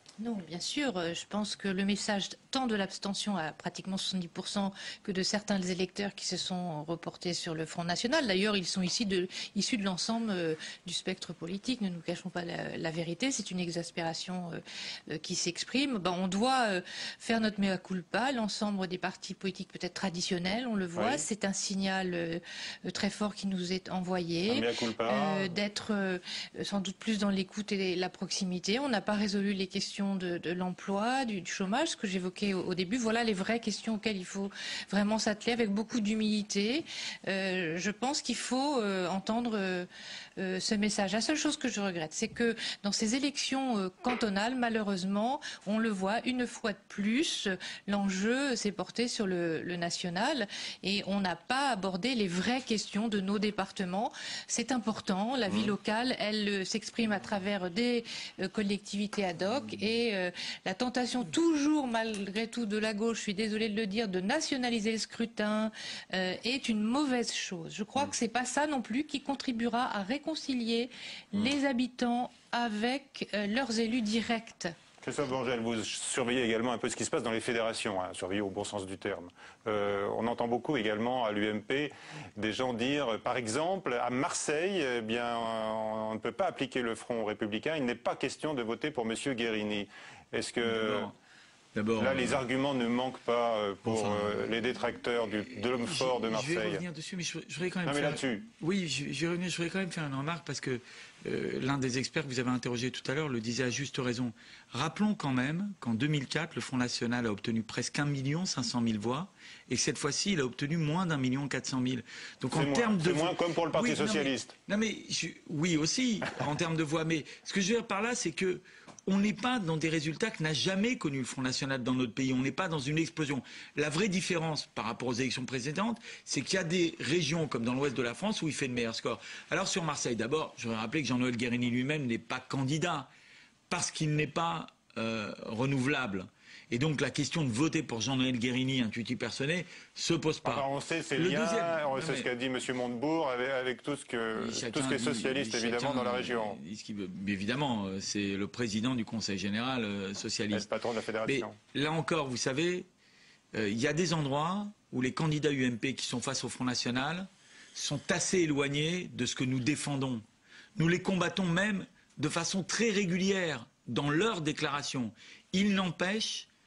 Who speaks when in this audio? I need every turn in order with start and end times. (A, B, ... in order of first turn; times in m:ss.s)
0:00.2-1:14.7 A
0:21.0-0:21.2 B
0:24.5-0:25.5 B
0:55.5-0:55.7 B
1:15.0-1:31.1 B
1:30.6-1:31.1 C
1:31.8-1:32.4 C
1:32.0-1:36.8 B
1:33.8-1:34.5 C
1:35.5-2:13.1 C
1:37.9-1:38.4 B
1:52.5-1:54.5 B
2:13.7-2:20.6 C
2:20.4-2:26.6 B
2:21.2-2:22.3 C
2:24.4-2:30.7 C
2:30.5-2:31.5 B
2:31.3-2:32.9 C
2:33.5-2:40.2 C
2:40.8-2:46.5 C